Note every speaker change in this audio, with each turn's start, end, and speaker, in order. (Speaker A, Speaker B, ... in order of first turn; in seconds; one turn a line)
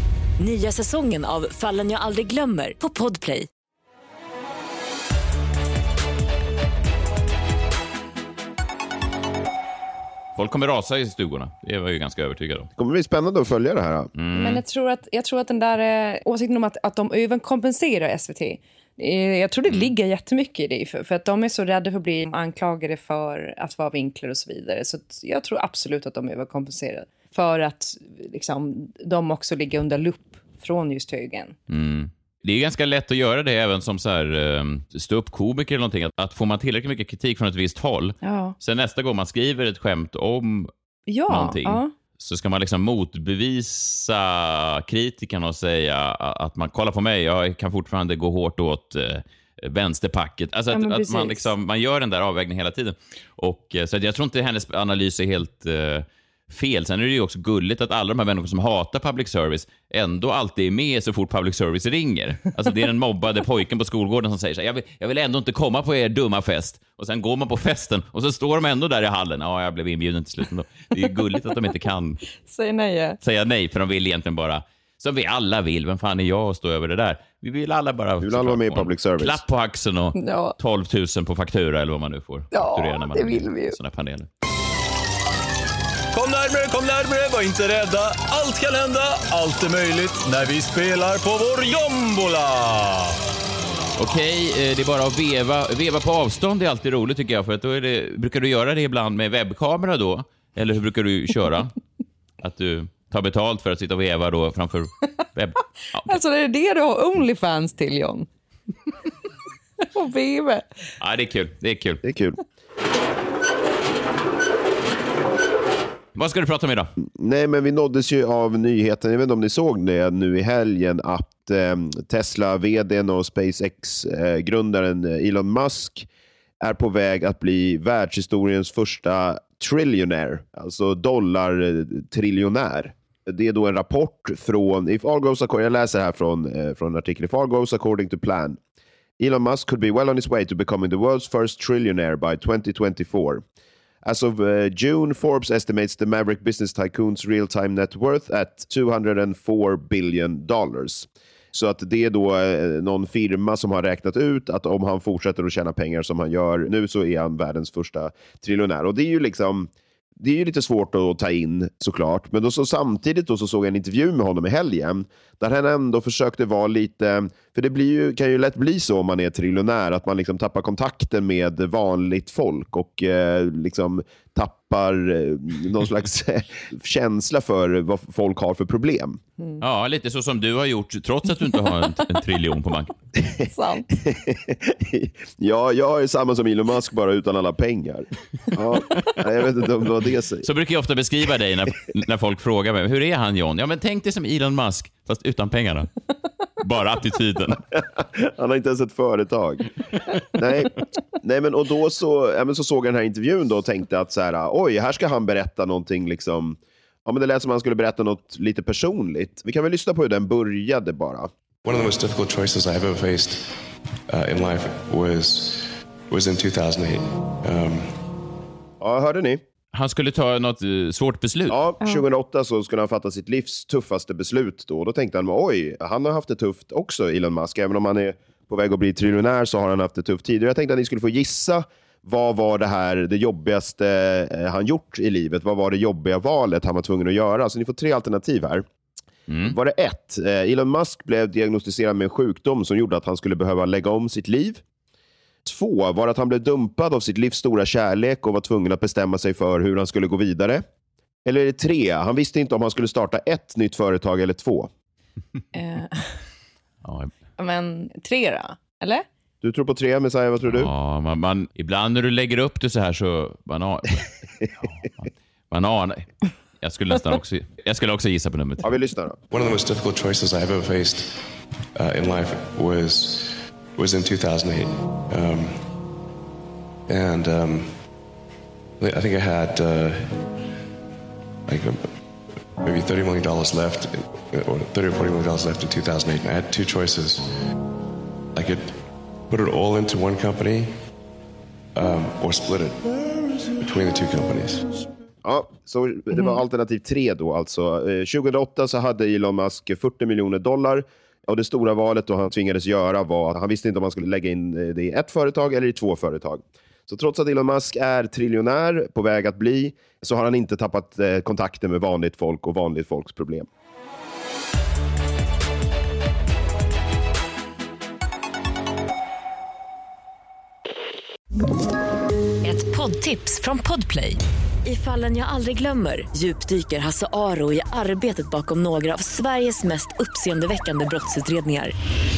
Speaker A: 0.4-3.5
Speaker B: 10.4-12.7
Speaker C: 12.8-14.1
Speaker B: 14.2-14.6
Speaker D: 14.3-31.6
Speaker B: 31.7-40.7
Speaker D: 38.2-38.6
Speaker D: 41.1-41.9
Speaker B: 41.3-72.2
Speaker D: 50.7-51.5
Speaker D: 72.5-73.2
Speaker B: 73.2-84.3
Speaker C: 78.2-79.4
Speaker D: 80.2-80.6
Speaker D: 82.5-83.8
Speaker E: 86.1-93.1
Speaker B: 94.0-101.7
Speaker B: 102.4-106.2
Speaker D: 106.1-108.3
Speaker D: 109.9-110.7
Speaker B: 111.0-112.0
Speaker C: 112.0-112.4
Speaker B: 116.2-116.9
Speaker C: 117.2-126.1
Speaker C: 126.6-138.6
Speaker C: 139.2-143.4
Speaker C: 144.1-179.2
Speaker B: 179.6-182.9
Speaker D: 183.4-183.9
Speaker C: 184.0-190.5
Speaker B: 190.4-195.9
Speaker B: 196.6-197.6
Speaker C: 197.7-199.7
Speaker C: 200.3-211.3
Speaker F: 211.6-218.0
Speaker C: 218.8-219.4
Speaker B: 219.7-221.6
Speaker C: 221.5-238.7
Speaker B: 239.3-239.6
Speaker C: 239.5-244.6
Speaker C: 245.4-250.6
Speaker C: 251.2-254.7
Speaker D: 255.6-256.1
Speaker B: 256.8-257.1
Speaker D: 257.4-259.1
Speaker C: 259.4-260.7
Speaker B: 260.5-268.7
Speaker C: 268.6-269.2
Speaker F: 269.3-275.8
Speaker F: 276.9-278.0
Speaker F: 278.8-280.3
Speaker F: 281.5-287.4
Speaker F: 288.3-290.8
Speaker F: 291.7-294.9
Speaker C: 295.2-313.5
Speaker A: 322.4-331.7